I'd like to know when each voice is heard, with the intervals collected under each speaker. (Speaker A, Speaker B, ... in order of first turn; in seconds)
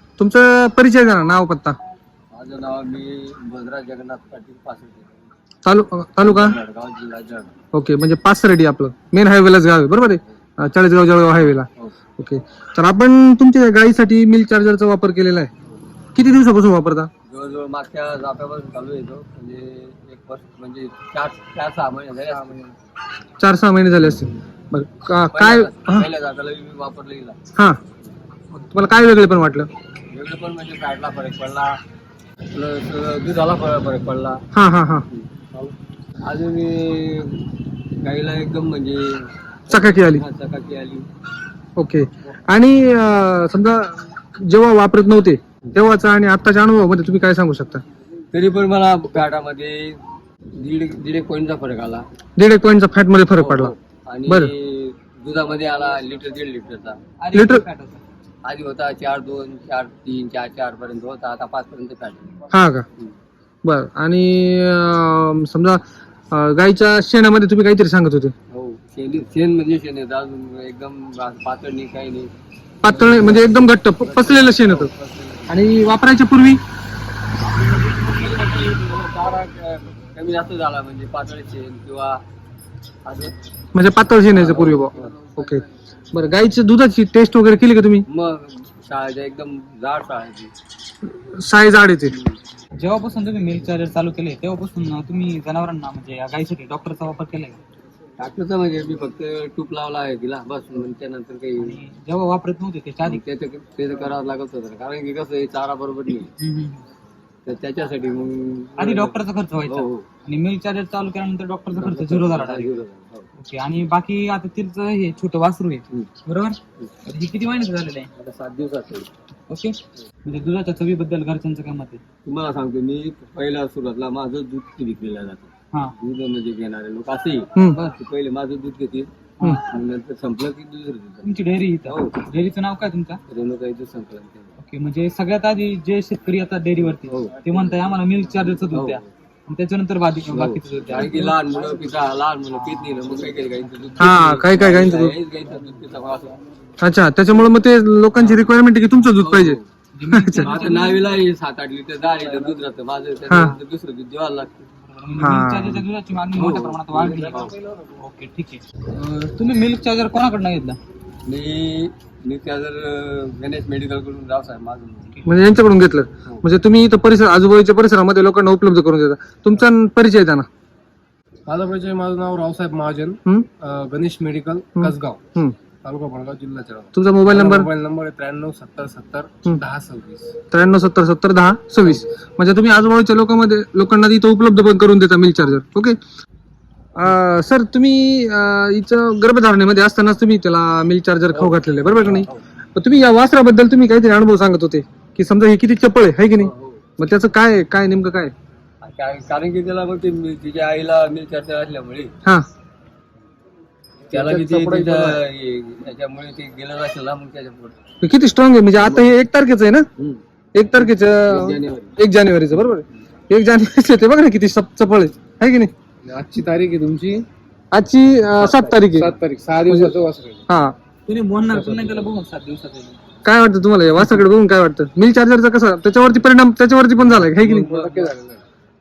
Speaker A: 0.2-1.8, 5.7-6.6, 7.7-15.5, 16.1-17.1, 22.3-22.7, 23.4-26.1, 28.5-29.7, 34.5-35.0, 39.7-40.2, 41.8-47.8, 52.4-53.7, 54.3-54.5, 57.3-57.6, 62.5-62.9, 63.6-68.3, 72.8-74.9, 75.5-76.6, 83.8-88.0, 91.0-92.2, 144.0-145.1, 146.8-149.6, 150.1-150.7, 153.3-153.6, 155.2-155.8, 165.2-170.5, 174.8-175.6, 176.9-177.7, 180.5-186.0, 187.0-198.3, 204.1-205.2, 208.0-209.9, 210.6-215.7, 217.7-219.2, 219.7-220.0, 220.5-220.8, 223.2-227.9
Speaker B: 2.3-5.2, 6.2-7.5, 17.3-22.6, 25.3-27.4, 30.1-31.8, 32.5-34.4, 35.1-35.7, 36.2-41.1, 48.3-50.0, 50.6-52.0, 53.3-57.0, 58.5-62.3, 68.5-72.3, 72.8-75.6, 77.4-82.2, 83.1-83.3, 84.3-85.2, 88.1-90.5, 92.1-92.4, 98.2-101.8, 103.0-106.3, 107.5-110.1, 111.8-113.3, 118.2-119.1, 122.2-129.1, 129.7-131.3, 131.8-132.2, 133.3-134.6, 137.1-137.6, 138.7-139.0, 140.3-146.4, 149.2-149.7, 150.4-154.7, 156.3-157.6, 161.3-165.2, 191.3-192.4, 196.4-196.8, 198.8-202.1, 204.1-207.8, 208.8-209.1, 210.8-211.9, 227.0-228.2
Speaker C: 57.2-58.0, 92.8-97.6, 101.6-103.2, 106.4-106.8, 108.8-112.8, 113.4-118.1, 119.5-122.0, 131.2-133.2, 134.6-141.4, 142.5-144.4, 149.9-151.2, 154.9-160.8, 221.1-223.0
Speaker D: 171.5-175.2, 175.8-180.3, 216.1-217.2, 218.4-220.5, 221.5-221.9, 227.4-228.4